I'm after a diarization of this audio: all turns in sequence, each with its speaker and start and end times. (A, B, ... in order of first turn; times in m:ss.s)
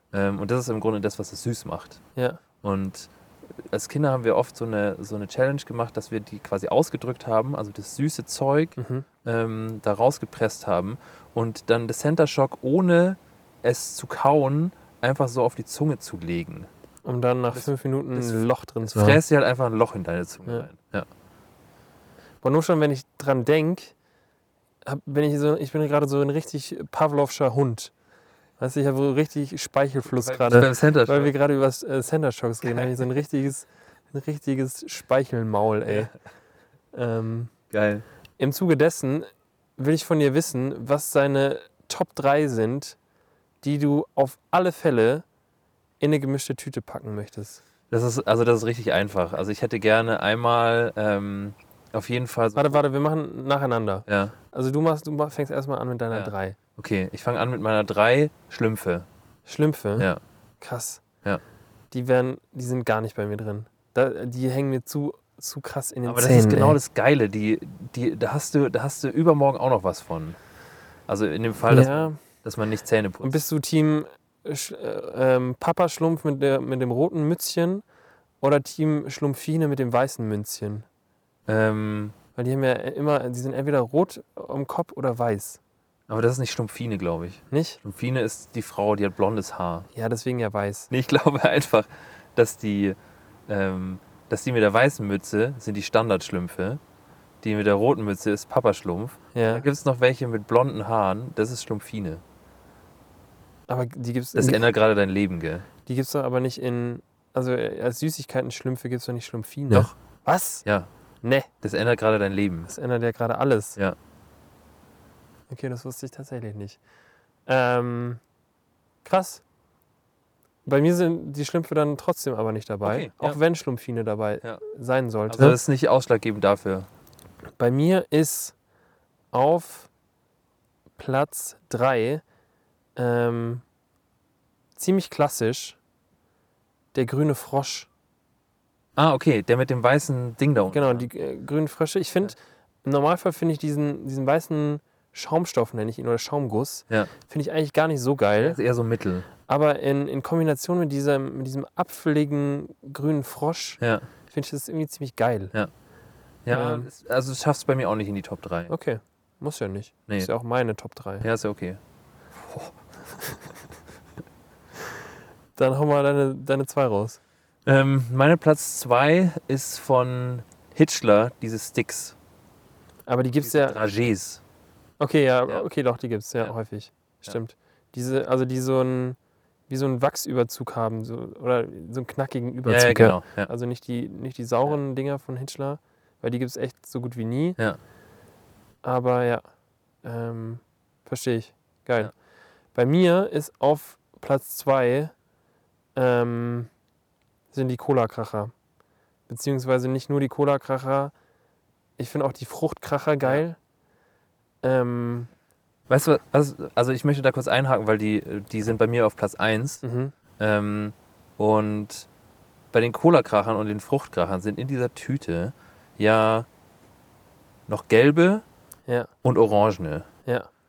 0:00.1-0:02.0 A
0:02.2-0:02.4 B
0:02.6-0:16.7 A
0:08.8-0:09.0 B
0:17.0-0:19.2 B
0:17.5-0:21.1 A
0:22.4-0:23.9 B
0:24.8-0:27.9 B
0:28.6-0:36.1 B
0:30.2-0:31.3 A
0:32.6-0:32.9 A
0:35.9-0:36.1 A
0:36.9-0:37.5 B
0:37.7-0:38.0 A
0:38.4-0:43.0 B
0:43.6-0:45.2 B
0:46.0-0:47.6 B
0:47.9-0:52.8 A
0:52.5-0:56.6 B
0:54.1-0:54.4 A
0:56.1-0:59.1 A
0:59.4-1:00.1 B
1:00.6-1:01.0 B
1:01.9-1:06.8 B
1:06.0-1:10.4 A
1:11.1-1:13.4 A
1:11.7-1:12.2 B
1:13.2-1:17.8 B
1:18.4-1:20.8 B
1:21.5-1:22.2 A
1:22.4-1:25.6 B
1:26.1-1:29.9 A
1:27.5-1:27.8 B
1:29.9-1:30.9 B
1:30.9-1:33.0 A
1:33.5-1:36.8 A
1:37.4-1:42.2 A
1:39.3-1:39.6 B
1:43.7-1:44.6 B
1:44.4-1:45.7 A
1:45.8-1:50.6 B
1:50.6-1:50.9 A
1:51.2-1:51.5 B
1:51.6-1:52.7 A
1:52.7-1:53.8 B
1:55.5-1:56.8 B
1:57.5-1:58.2 B
1:59.0-1:59.4 B
2:00.6-2:05.6 B
2:02.8-2:03.4 A
2:05.3-2:06.9 A
2:07.6-2:08.5 B
2:09.3-2:09.9 B
2:11.0-2:12.2 B
2:13.0-2:13.6 B
2:14.8-2:15.8 B
2:16.9-2:17.9 B
2:19.0-2:21.1 A
2:20.7-2:28.6 B
2:28.4-2:29.3 A
2:29.5-2:35.5 B
2:33.8-2:34.1 A
2:36.4-2:38.7 A
2:36.5-2:36.9 B
2:38.7-2:41.2 B
2:41.2-2:41.8 A
2:42.4-2:42.7 A
2:45.6-2:47.2 B
2:47.6-2:52.2 A
2:53.1-2:53.8 B
2:53.4-2:54.4 A
2:55.0-2:59.2 B
2:59.7-3:07.6 B
3:02.6-3:03.5 A
3:08.8-3:09.4 B
3:10.0-3:12.1 B
3:12.7-3:15.1 B
3:15.9-3:16.7 B
3:17.5-3:18.5 B
3:19.3-3:21.1 B
3:22.0-3:23.6 B
3:24.6-3:25.3 B
3:25.9-3:29.8 A
3:29.8-3:30.1 B
3:30.4-3:32.1 A
3:32.7-3:36.5 A
3:37.7-3:38.4 A
3:39.2-3:40.1 A